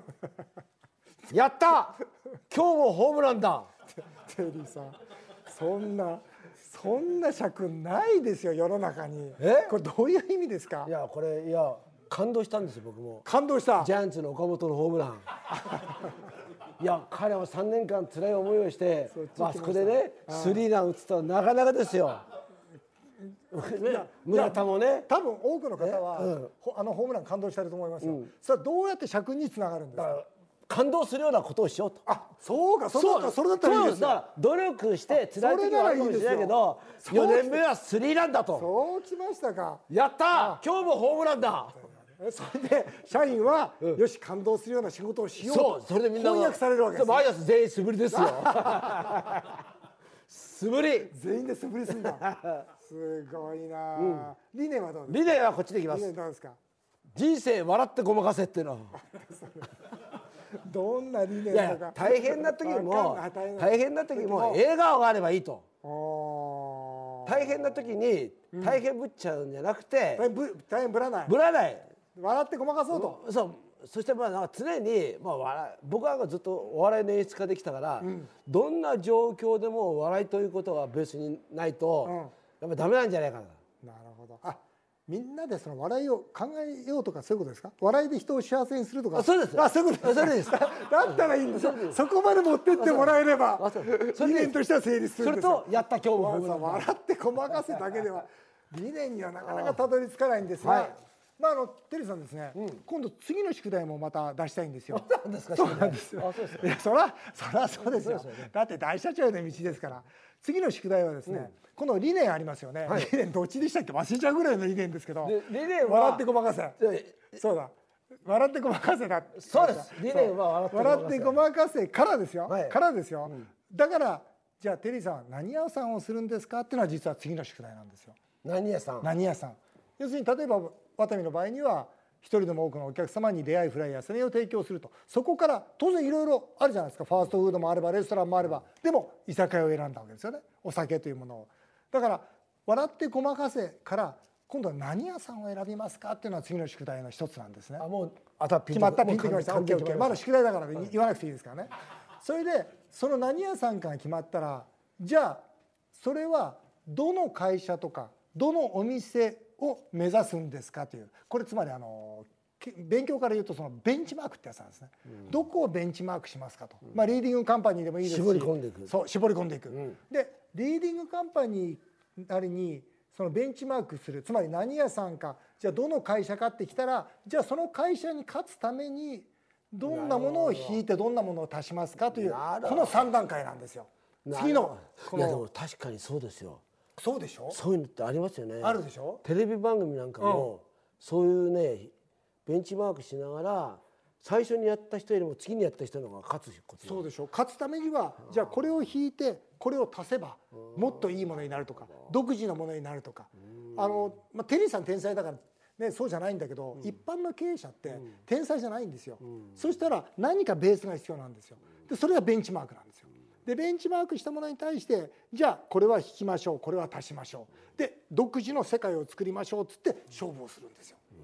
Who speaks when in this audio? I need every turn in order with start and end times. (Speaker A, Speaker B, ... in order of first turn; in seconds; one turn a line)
Speaker A: 1.3-3.7
Speaker B: 4.0-10.9
Speaker A: 9.4-9.8
Speaker A: 10.8-13.3
Speaker B: 13.2-13.9
Speaker A: 13.8-15.3
Speaker A: 16.8-22.3
Speaker B: 19.1-20.6
Speaker A: 23.5-25.1
Speaker B: 23.8-30.2
Speaker A: 25.8-26.5
Speaker A: 28.0-28.3
Speaker A: 29.9-32.0
Speaker B: 32.1-34.2
Speaker A: 32.9-38.7
Speaker B: 35.1-37.6
Speaker B: 38.5-40.6
Speaker A: 39.9-41.8
Speaker B: 41.8-47.3
Speaker A: 45.4-49.6
Speaker B: 48.1-49.2
Speaker A: 50.3-51.1
Speaker B: 51.1-55.3
Speaker A: 52.0-52.6
Speaker A: 54.0-54.3
Speaker A: 55.1-56.1
Speaker B: 55.9-56.6
Speaker A: 57.1-59.0
Speaker B: 59.0-59.9
Speaker B: 60.6-64.6
Speaker A: 61.5-65.7
Speaker B: 65.8-67.6
Speaker A: 67.2-70.3
Speaker B: 68.5-68.8
Speaker B: 70.2-71.4
Speaker A: 71.3-71.9
Speaker B: 72.2-73.2
Speaker A: 72.9-83.6
Speaker B: 78.0-78.3
Speaker B: 82.0-82.3
Speaker B: 83.8-116.8
Speaker A: 89.1-92.0
Speaker A: 92.8-94.6
Speaker A: 95.2-96.9
Speaker A: 99.5-99.8
Speaker A: 100.6-101.0
Speaker A: 102.6-102.8
Speaker A: 104.9-106.7
Speaker A: 107.8-108.5
Speaker A: 112.9-113.1
Speaker A: 115.2-117.3
Speaker B: 117.3-117.7
Speaker B: 118.2-128.2
Speaker A: 119.4-121.4
Speaker A: 122.5-123.5
Speaker A: 128.4-129.1
Speaker B: 129.0-147.9
Speaker A: 147.8-150.2
Speaker B: 148.7-185.5
Speaker A: 168.0-168.9
Speaker A: 169.7-170.0
Speaker A: 179.8-180.8
Speaker A: 182.0-183.1
Speaker A: 184.2-186.6
Speaker B: 187.0-187.6
Speaker A: 187.5-191.9
Speaker B: 188.6-189.2
Speaker B: 190.2-190.5
Speaker A: 192.5-197.0
Speaker B: 196.8-221.0